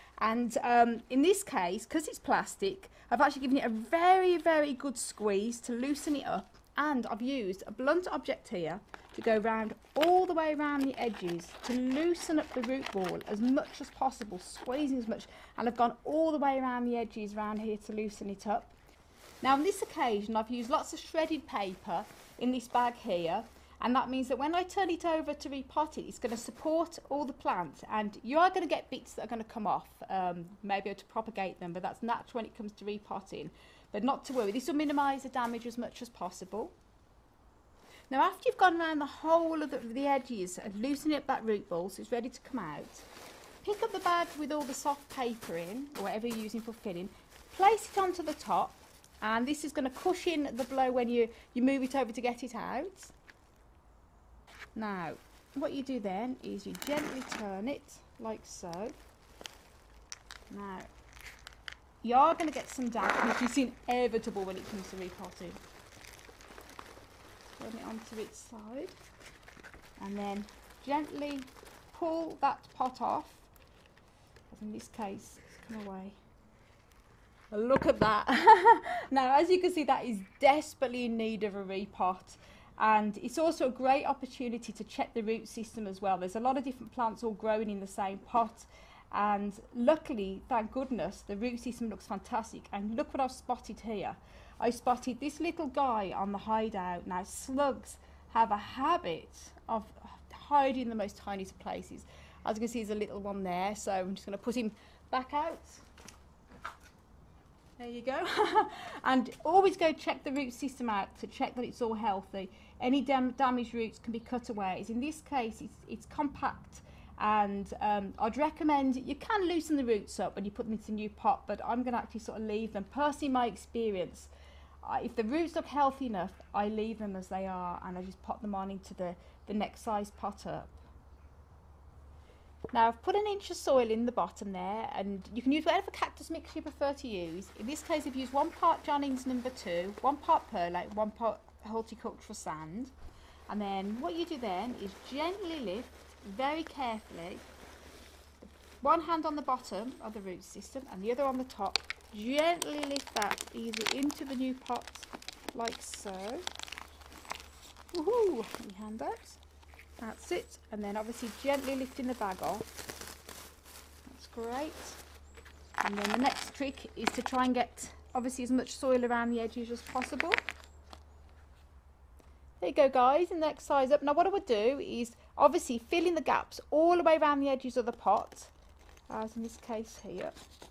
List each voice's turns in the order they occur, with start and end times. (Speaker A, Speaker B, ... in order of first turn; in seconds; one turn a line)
Speaker A: 0.2-18.7
Speaker A: 19.4-36.7
Speaker A: 38.1-43.0
Speaker A: 43.6-53.1
Speaker A: 54.7-58.9
Speaker A: 60.5-60.9
Speaker A: 62.0-65.6
Speaker A: 67.5-68.9
Speaker A: 70.0-73.5
Speaker A: 74.5-76.2
Speaker A: 77.5-105.8
Speaker A: 107.8-124.3
Speaker A: 124.8-130.8
Speaker A: 132.7-142.9
Speaker A: 143.5-147.4
Speaker A: 148.4-156.4
Speaker A: 157.9-159.4
Speaker A: 160.0-162.7
Speaker A: 164.1-165.0
Speaker A: 165.8-170.4
Speaker A: 172.6-178.5
Speaker A: 179.1-180.3